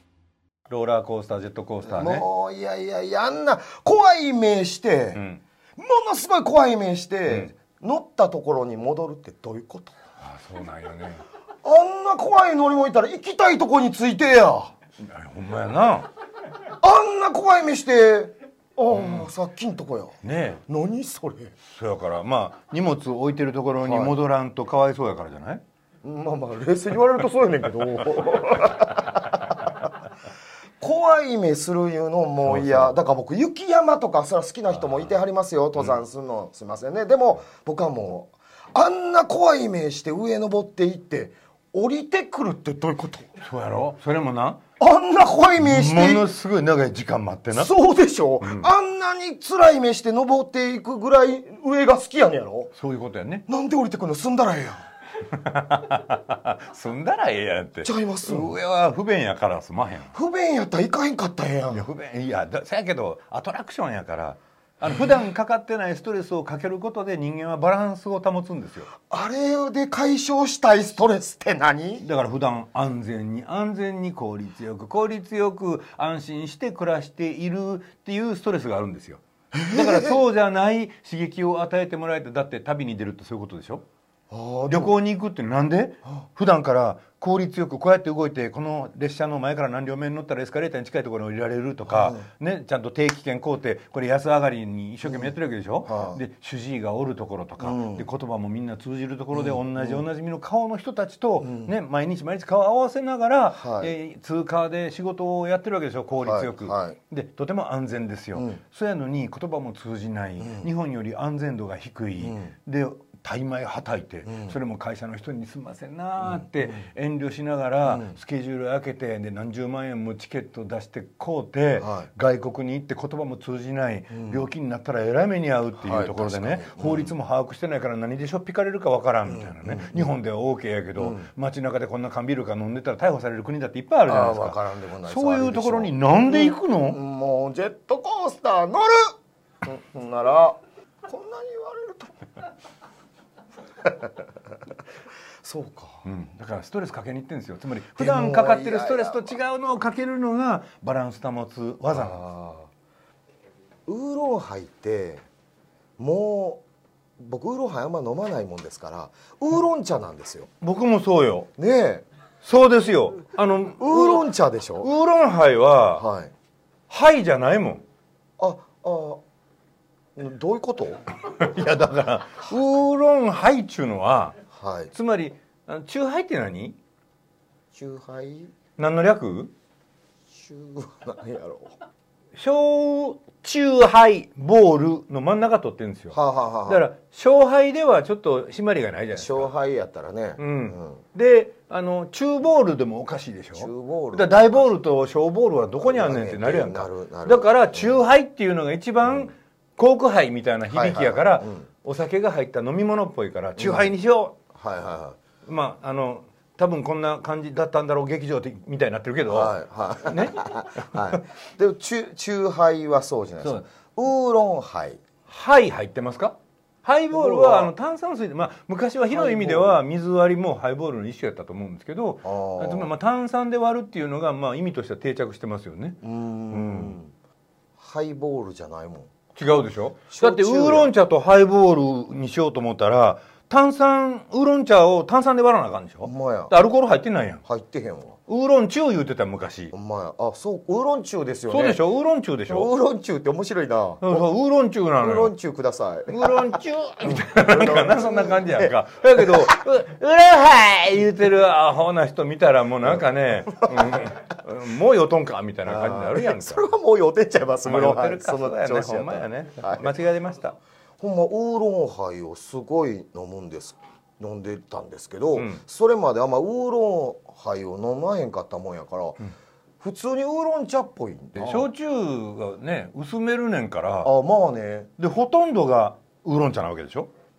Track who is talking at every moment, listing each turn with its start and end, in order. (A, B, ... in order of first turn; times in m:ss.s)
0:00.7-0:02.3 A
0:01.8-0:05.2 B
0:05.2-0:05.4 A
0:05.8-0:10.0 B
0:10.2-0:11.2 A
0:11.6-0:14.7 B
0:15.0-0:16.1 A
0:16.8-0:21.6 B
0:18.9-0:19.3 A
0:20.2-0:20.6 A
0:21.7-0:25.6 A
0:23.8-0:24.2 B
0:26.0-0:29.9 B
0:30.8-0:43.3 B
0:32.4-0:33.0 A
0:34.8-0:35.1 A
0:43.4-0:44.6 A
0:44.8-0:46.3 B
0:45.6-0:47.7 A
0:47.5-0:52.7 B
0:48.4-0:48.7 A
0:52.7-0:53.5 A
0:53.5-0:54.8 B
0:55.3-1:00.1 A
0:57.8-0:58.6 B
1:00.1-1:01.9 B
1:01.7-1:08.9 A
1:09.1-1:12.0 B
1:12.0-1:23.8 A
1:19.5-1:20.2 B
1:24.3-1:24.9 B
1:24.7-2:17.0 A
1:31.9-1:32.2 B
1:35.0-1:35.3 B
1:35.8-1:36.2 B
1:37.6-1:38.1 B
1:39.3-1:40.0 B
1:41.4-1:41.7 B
1:43.5-1:43.9 B
1:46.2-1:47.0 B
1:48.3-1:48.6 B
1:50.4-1:50.7 B
1:52.2-1:52.5 B
1:54.2-1:54.6 B
1:56.3-1:56.7 B
1:57.8-1:58.2 B
2:01.8-2:02.1 B
2:04.1-2:04.4 B
2:05.8-2:07.1 B
2:09.2-2:10.1 B
2:11.0-2:11.3 B
2:14.1-2:22.1 B
2:23.8-2:24.3 B
2:25.4-2:26.0 B
2:26.0-2:32.2 A
2:28.0-2:29.4 B
2:31.9-2:32.7 B
2:33.9-2:35.2 B
2:36.0-2:36.6 B
2:37.2-2:40.5 B
2:40.6-2:41.5 A
2:41.6-2:42.1 B
2:42.4-2:46.1 A
2:43.8-2:44.9 B
2:46.0-2:46.3 B
2:46.9-2:47.8 A
2:48.4-2:49.2 B
2:50.2-2:51.0 B
2:51.2-2:54.4 A
2:54.5-2:54.9 B
2:54.9-2:56.8 A
2:57.7-2:58.5 B
2:58.8-2:59.5 A
3:00.3-3:01.7 B
3:02.4-3:09.5 A
3:06.1-3:06.8 B
3:09.2-3:11.0 B
3:10.4-3:24.4 A
3:13.6-3:14.7 B
3:15.8-3:18.0 B
3:20.7-3:21.7 B
3:23.6-3:23.9 B
3:24.6-3:25.2 B
3:25.5-3:31.0 A
3:29.3-3:35.0 B
3:35.3-3:46.0 A
3:37.1-3:37.7 B
3:39.1-3:39.8 B
3:42.2-3:42.9 B
3:46.0-3:47.1 B
3:46.5-3:47.0 A
3:47.8-3:49.1 B
3:49.4-3:57.4 A
3:50.1-3:50.9 B
3:56.0-3:56.5 B
3:57.4-3:58.2 B
3:58.3-3:59.7 A
3:59.7-4:01.8 B
4:01.5-4:02.7 A
4:02.5-4:04.3 B
4:04.0-4:05.3 A
4:05.0-4:09.5 B
4:06.1-4:16.7 A
4:13.5-4:14.1 B
4:15.7-4:19.9 B
4:17.6-4:20.6 A
4:21.0-4:29.2 B
4:25.4-4:25.6 A
4:29.8-4:31.7 B
4:31.4-4:34.1 A
4:34.0-4:34.9 B
4:35.0-4:37.1 A